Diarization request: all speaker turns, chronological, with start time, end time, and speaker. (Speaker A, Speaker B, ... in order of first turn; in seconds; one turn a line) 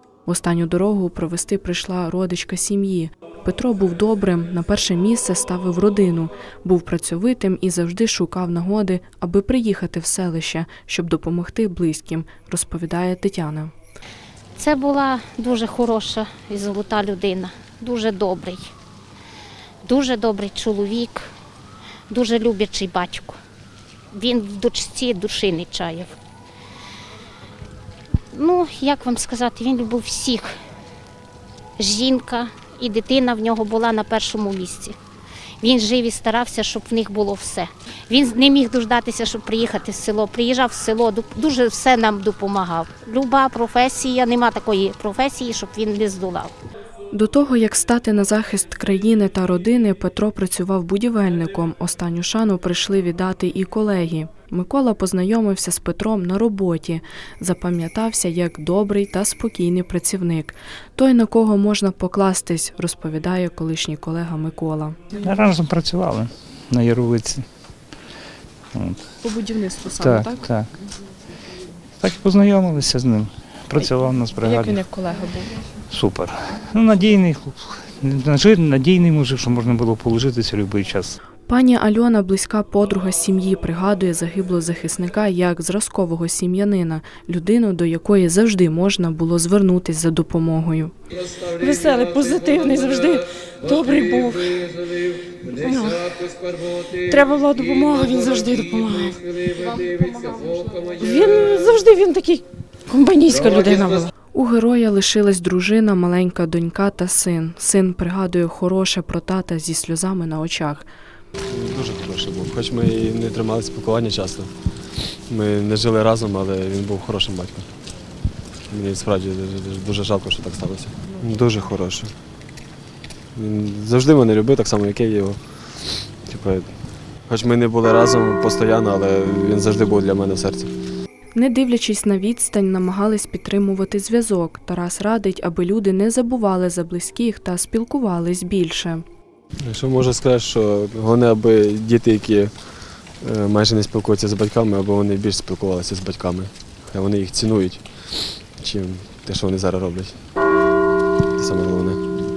Speaker A: 0.2-13.7
Speaker B: 14.6-18.7
Speaker B: 19.8-21.2
Speaker B: 22.1-23.4
Speaker B: 24.1-26.2
Speaker B: 28.3-30.5
Speaker B: 31.8-35.0
Speaker B: 35.6-46.5
Speaker A: 47.1-65.0
Speaker C: 65.1-67.8
Speaker C: 68.7-69.2
Speaker D: 69.2-70.4
Speaker C: 69.9-70.7
Speaker C: 72.0-74.8
Speaker D: 74.4-75.6
Speaker C: 75.8-81.2
Speaker A: 81.5-90.9
Speaker D: 91.5-104.1
Speaker A: 104.3-110.9
Speaker E: 111.5-117.7
Speaker E: 118.7-122.1
Speaker E: 123.3-130.7
Speaker A: 131.3-139.0
Speaker E: 139.6-150.3
Speaker E: 151.3-152.1